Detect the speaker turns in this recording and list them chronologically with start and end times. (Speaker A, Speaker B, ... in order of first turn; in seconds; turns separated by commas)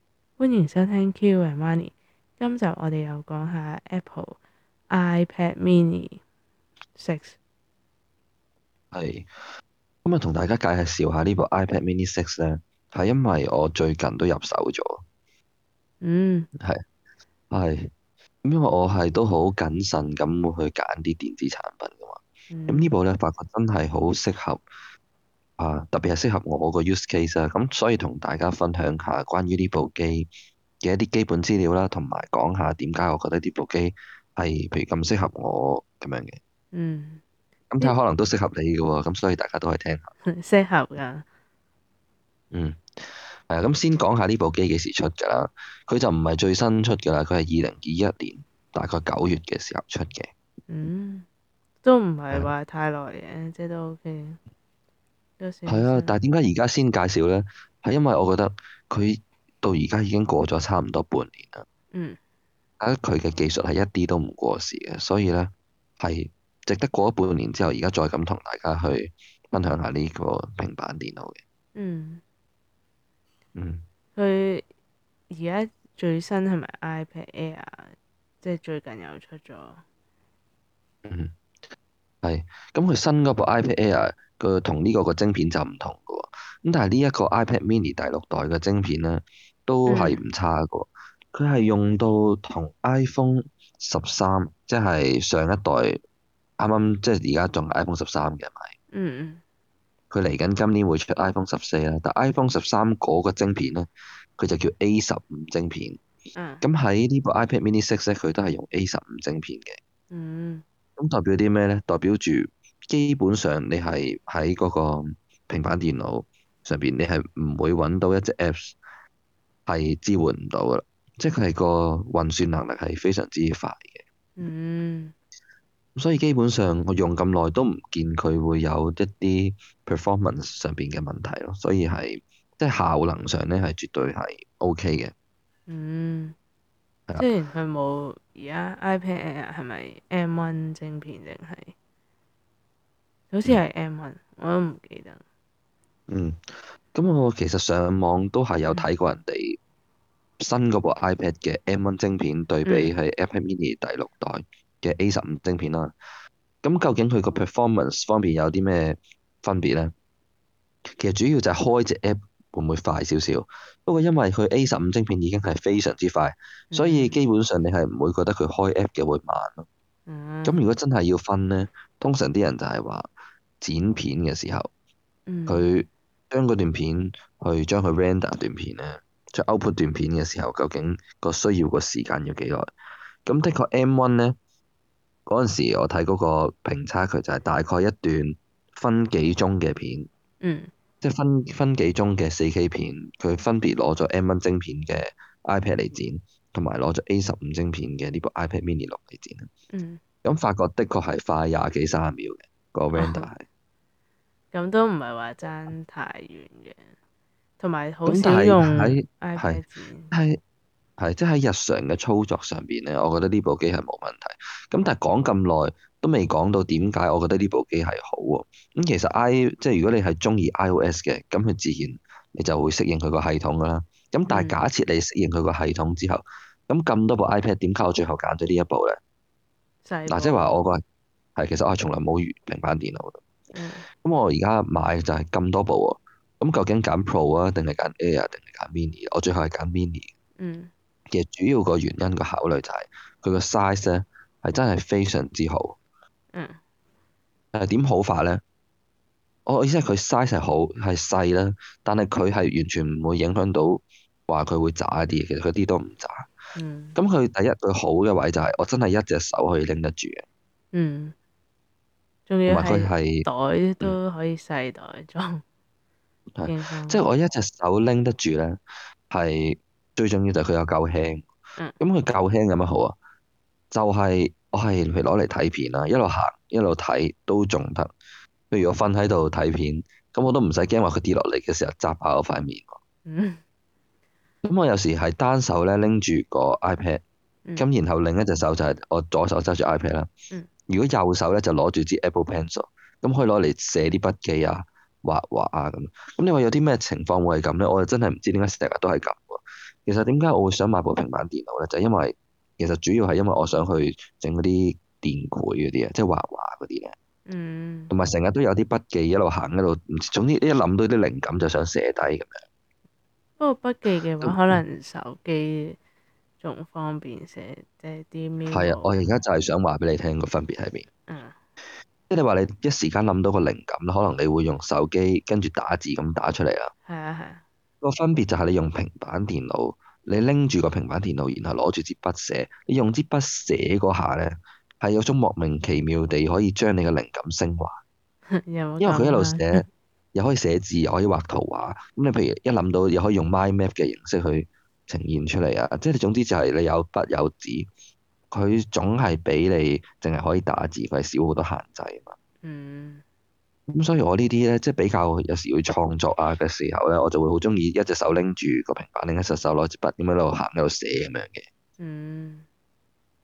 Speaker A: 0.4-4.4, Speaker A: 4.9-6.2, Speaker A: 7.0-7.4, Speaker B: 8.9-9.3, Speaker B: 10.0-15.0, Speaker A: 16.0-16.5, Speaker B: 17.5-17.9, Speaker B: 18.4-24.6, Speaker A: 22.5-22.9, Speaker B: 25.6-30.3, Speaker B: 30.8-36.4, Speaker A: 36.7-37.2, Speaker B: 37.7-40.1, Speaker A: 40.2-41.2, Speaker B: 42.5-50.3, Speaker A: 50.7-51.2, Speaker A: 51.8-54.4, Speaker A: 55.4-56.1, Speaker B: 55.7-61.6, Speaker A: 61.9-62.2, Speaker B: 62.8-71.4, Speaker A: 71.7-72.2, Speaker B: 73.5-73.8, Speaker A: 74.1-74.6, Speaker A: 75.3-79.8, Speaker B: 81.0-81.3, Speaker B: 82.2-96.0, Speaker A: 89.9-90.2, Speaker B: 96.6-98.7, Speaker A: 98.9-99.4, Speaker B: 100.1-106.0, Speaker A: 106.3-106.6, Speaker B: 106.6-109.8, Speaker A: 110.1-110.6, Speaker B: 111.0-118.8, Speaker B: 119.7-124.0, Speaker A: 124.4-125.1, Speaker B: 126.0-135.1, Speaker A: 135.7-136.3, Speaker A: 137.2-141.7, Speaker A: 143.3-145.2, Speaker B: 146.1-149.6, Speaker B: 150.4-155.9, Speaker A: 152.7-152.9, Speaker B: 156.6-159.9, Speaker B: 161.0-169.7, Speaker A: 166.7-167.2, Speaker A: 170.1-170.6, Speaker B: 170.4-173.1, Speaker B: 173.6-174.7, Speaker A: 175.3-175.7, Speaker B: 175.5-182.7, Speaker B: 183.2-184.3, Speaker B: 185.2-190.1, Speaker A: 190.4-190.7, Speaker B: 191.0-199.5, Speaker A: 199.7-200.0, Speaker B: 200.2-203.4, Speaker A: 203.0-203.3, Speaker A: 204.5-206.9, Speaker A: 207.6-210.1, Speaker B: 208.0-210.4, Speaker B: 211.0-229.0, Speaker A: 224.3-224.6, Speaker A: 229.8-230.6, Speaker B: 230.1-230.8, Speaker B: 231.3-233.2, Speaker A: 233.5-233.8, Speaker B: 234.0-240.1, Speaker A: 240.4-240.7, Speaker B: 241.1-245.8, Speaker B: 247.5-248.4, Speaker B: 249.4-256.3, Speaker A: 256.5-257.0, Speaker B: 256.9-260.2, Speaker A: 260.7-261.1, Speaker A: 262.3-265.4, Speaker B: 262.5-263.2, Speaker B: 266.4-271.3, Speaker A: 266.4-267.0, Speaker B: 271.8-272.9, Speaker B: 273.7-277.9, Speaker B: 278.5-282.8, Speaker A: 283.1-283.4, Speaker B: 284.4-287.0, Speaker B: 287.6-290.1, Speaker B: 290.7-306.9, Speaker A: 307.3-307.9, Speaker B: 307.9-312.4, Speaker A: 313.4-315.8, Speaker B: 314.2-314.6, Speaker A: 316.4-319.1, Speaker B: 318.5-320.9, Speaker A: 321.1-321.3, Speaker B: 322.1-326.7, Speaker A: 326.9-327.4, Speaker B: 327.8-337.8, Speaker A: 338.4-339.6, Speaker B: 338.8-347.7, Speaker B: 348.3-352.1, Speaker A: 352.4-353.0, Speaker B: 353.7-361.5, Speaker A: 361.8-362.4